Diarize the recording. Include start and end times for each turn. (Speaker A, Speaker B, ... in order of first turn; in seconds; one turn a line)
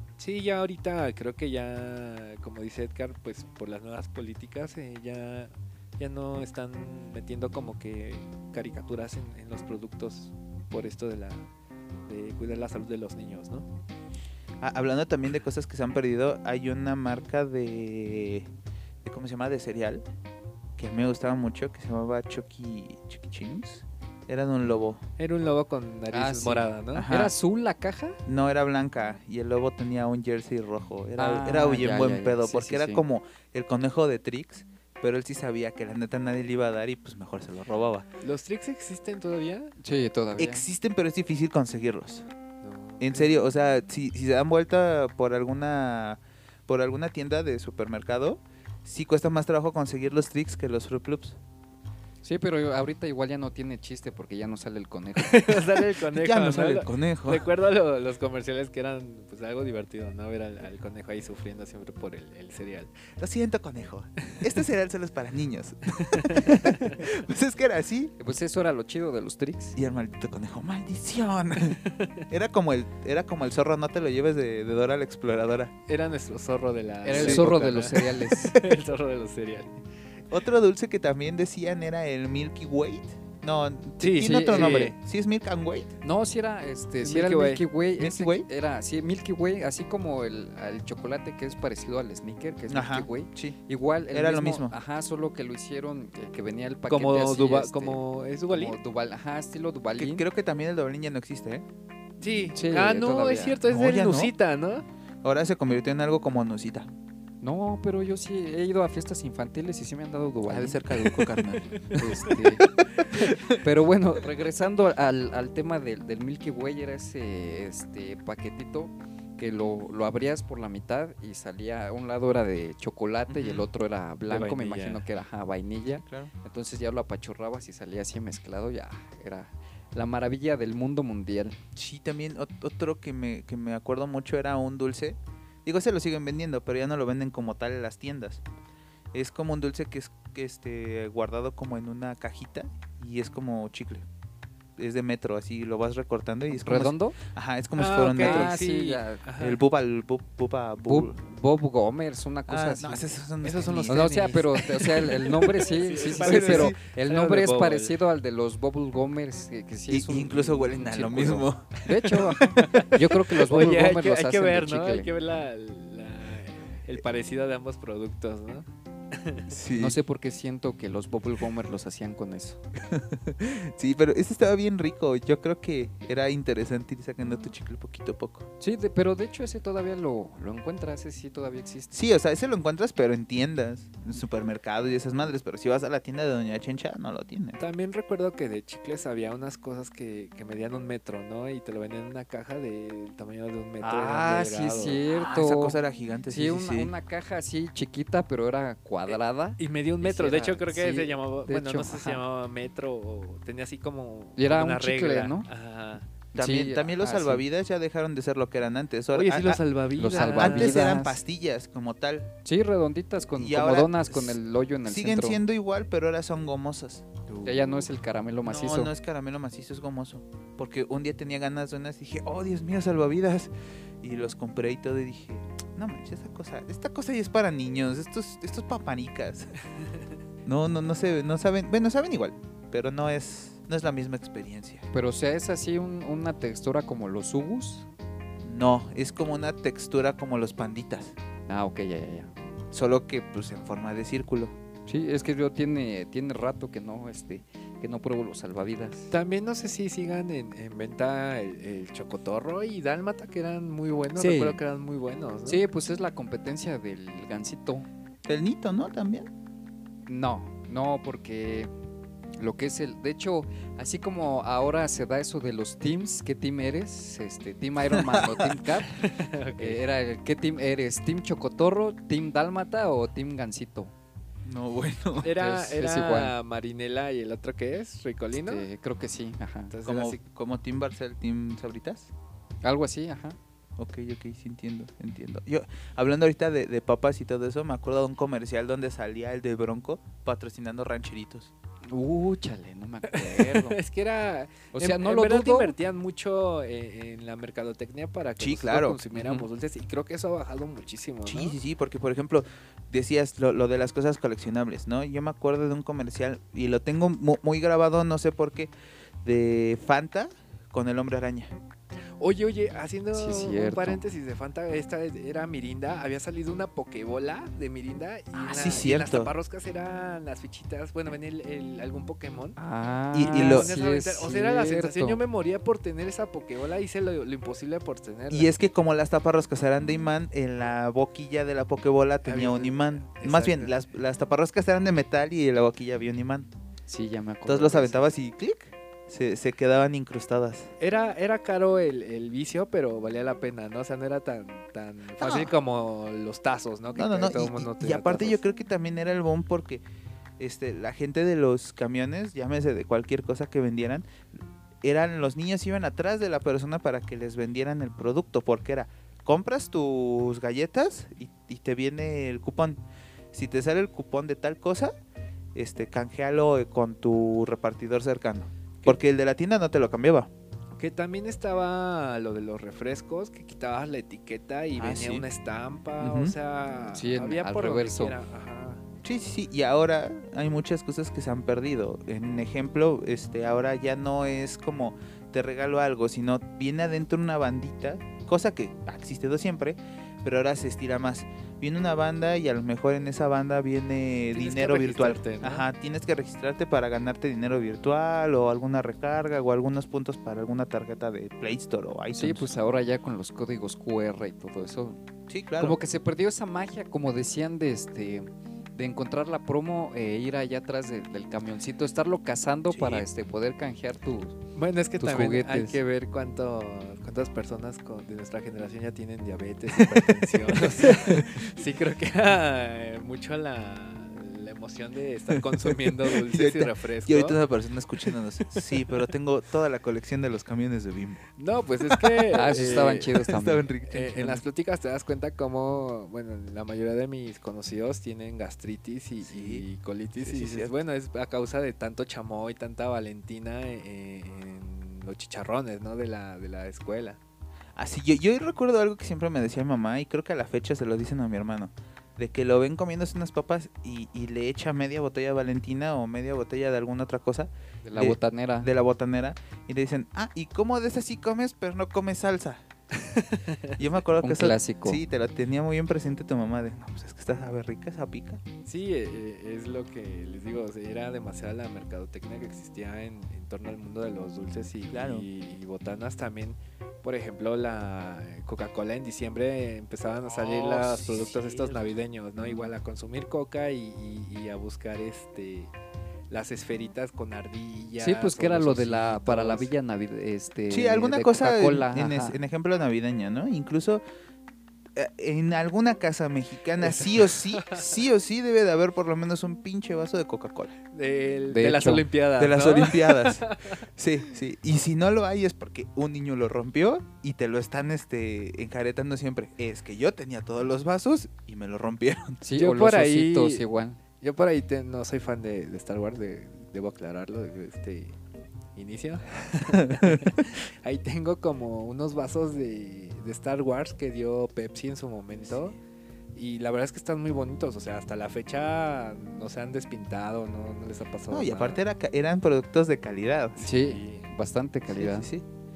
Speaker A: 0.2-11.5
Speaker A: 12.1-13.7
Speaker B: 14.6-18.5
Speaker B: 19.0-20.0
Speaker B: 20.8-25.0
Speaker A: 25.2-27.1
Speaker C: 26.1-28.2
Speaker B: 26.9-27.3
Speaker B: 28.3-38.1
Speaker C: 31.2-33.0
Speaker A: 38.2-39.8
Speaker C: 39.8-40.6
Speaker B: 40.4-42.3
Speaker A: 42.6-43.3
Speaker B: 43.0-51.4
Speaker C: 52.2-55.8
Speaker A: 55.2-63.0
Speaker B: 56.1-57.5
Speaker B: 63.2-68.1
Speaker A: 66.0-67.0
Speaker C: 68.2-69.8
Speaker B: 69.8-75.7
Speaker A: 75.9-79.7
Speaker C: 77.0-78.6
Speaker B: 77.1-77.5
Speaker B: 80.3-85.9
Speaker A: 84.0-85.0
Speaker C: 84.3-84.9
Speaker C: 86.0-100.2
Speaker A: 87.0-87.7
Speaker B: 88.0-88.5
Speaker B: 92.7-93.6
Speaker B: 94.1-94.8
Speaker A: 96.9-98.8
Speaker B: 100.0-101.7
Speaker A: 102.2-104.8
Speaker C: 102.5-103.6
Speaker B: 103.7-104.3
Speaker B: 105.2-106.9
Speaker C: 107.4-110.8
Speaker B: 110.5-111.8
Speaker A: 111.8-112.0
Speaker C: 111.9-112.7
Speaker B: 113.2-113.6
Speaker C: 113.5-131.6
Speaker B: 123.3-123.7
Speaker A: 124.3-125.0
Speaker B: 126.0-126.3
Speaker B: 131.8-138.4
Speaker B: 139.1-144.1
Speaker B: 144.8-148.6
Speaker C: 146.5-147.2
Speaker A: 147.8-149.6
Speaker C: 148.2-149.2
Speaker B: 149.4-151.2
Speaker C: 150.8-153.1
Speaker B: 152.5-154.1
Speaker A: 153.4-157.9
Speaker C: 153.9-165.1
Speaker B: 156.0-156.8
Speaker B: 159.9-162.8
Speaker A: 162.0-169.5
Speaker B: 169.5-170.0
Speaker C: 169.8-172.6
Speaker B: 172.9-178.5
Speaker C: 178.6-181.9
Speaker B: 181.9-187.6
Speaker A: 187.6-195.0
Speaker C: 193.8-202.2
Speaker B: 195.1-196.9
Speaker A: 199.1-206.1
Speaker C: 204.4-205.5
Speaker C: 206.3-207.4
Speaker B: 206.3-209.6
Speaker A: 209.1-211.0
Speaker C: 210.0-211.2
Speaker B: 210.2-212.3
Speaker C: 212.4-215.4
Speaker B: 213.4-217.2
Speaker C: 217.4-218.9
Speaker B: 218.4-223.5
Speaker B: 224.0-229.5
Speaker B: 230.4-234.8
Speaker C: 234.9-237.9
Speaker B: 238.4-241.2
Speaker C: 241.5-242.3
Speaker B: 242.7-244.5
Speaker C: 244.9-249.1
Speaker A: 249.1-255.6
Speaker C: 254.2-254.6
Speaker C: 255.5-257.9
Speaker B: 258.3-259.3
Speaker C: 260.1-261.7
Speaker C: 262.4-268.9
Speaker B: 267.9-268.6
Speaker A: 268.9-269.8
Speaker C: 269.6-273.9
Speaker B: 274.4-275.3
Speaker C: 275.2-276.3
Speaker A: 275.2-278.7
Speaker C: 278.4-279.7
Speaker A: 279.7-280.2
Speaker B: 279.9-282.1
Speaker C: 282.6-283.4
Speaker B: 283.8-291.5
Speaker C: 291.9-293.8
Speaker A: 293.1-301.6
Speaker C: 294.7-295.8
Speaker B: 298.4-299.0
Speaker C: 299.1-299.5
Speaker B: 301.3-308.7
Speaker B: 309.2-311.5
Speaker A: 312.2-322.6
Speaker C: 313.1-314.0
Speaker B: 318.3-319.3
Speaker C: 322.6-325.2
Speaker B: 323.1-323.7
Speaker A: 323.3-328.5
Speaker B: 328.3-336.5
Speaker A: 332.2-333.7
Speaker C: 336.9-338.1
Speaker B: 337.5-340.7
Speaker A: 340.8-348.4
Speaker B: 345.2-345.5
Speaker B: 346.9-349.8
Speaker B: 350.4-354.1
Speaker B: 354.8-362.8
Speaker B: 363.3-364.9
Speaker B: 365.6-370.3
Speaker A: 370.8-378.8
Speaker B: 374.8-375.3
Speaker B: 376.0-376.3
Speaker C: 376.9-378.2
Speaker B: 379.0-402.5
Speaker A: 394.3-395.7
Speaker C: 402.1-405.0
Speaker B: 405.3-405.8
Speaker C: 405.6-414.4
Speaker B: 412.7-413.1
Speaker A: 414.6-427.4
Speaker C: 415.0-415.8
Speaker B: 419.8-420.1
Speaker B: 420.8-421.4
Speaker B: 425.4-431.2
Speaker A: 431.4-433.2
Speaker B: 431.9-434.4
Speaker C: 432.3-433.7
Speaker A: 433.9-447.2
Speaker B: 439.2-439.6
Speaker B: 440.2-440.7
Speaker B: 447.8-462.6
Speaker C: 457.8-458.7
Speaker A: 462.9-463.9
Speaker B: 463.8-468.4
Speaker C: 464.2-465.0
Speaker A: 468.6-485.7
Speaker B: 474.9-475.3
Speaker B: 480.3-481.8
Speaker A: 486.3-489.7
Speaker C: 488.0-492.4
Speaker B: 490.7-494.0
Speaker B: 495.0-500.8
Speaker A: 496.8-497.9
Speaker A: 500.9-503.8
Speaker C: 501.5-502.1
Speaker B: 502.4-512.4
Speaker C: 512.4-514.0
Speaker A: 512.6-513.6
Speaker A: 514.2-518.2
Speaker A: 518.8-525.8
Speaker B: 525.5-525.8
Speaker A: 526.4-531.8
Speaker B: 531.3-533.6
Speaker C: 533.6-535.3
Speaker A: 533.6-534.3
Speaker B: 534.9-535.5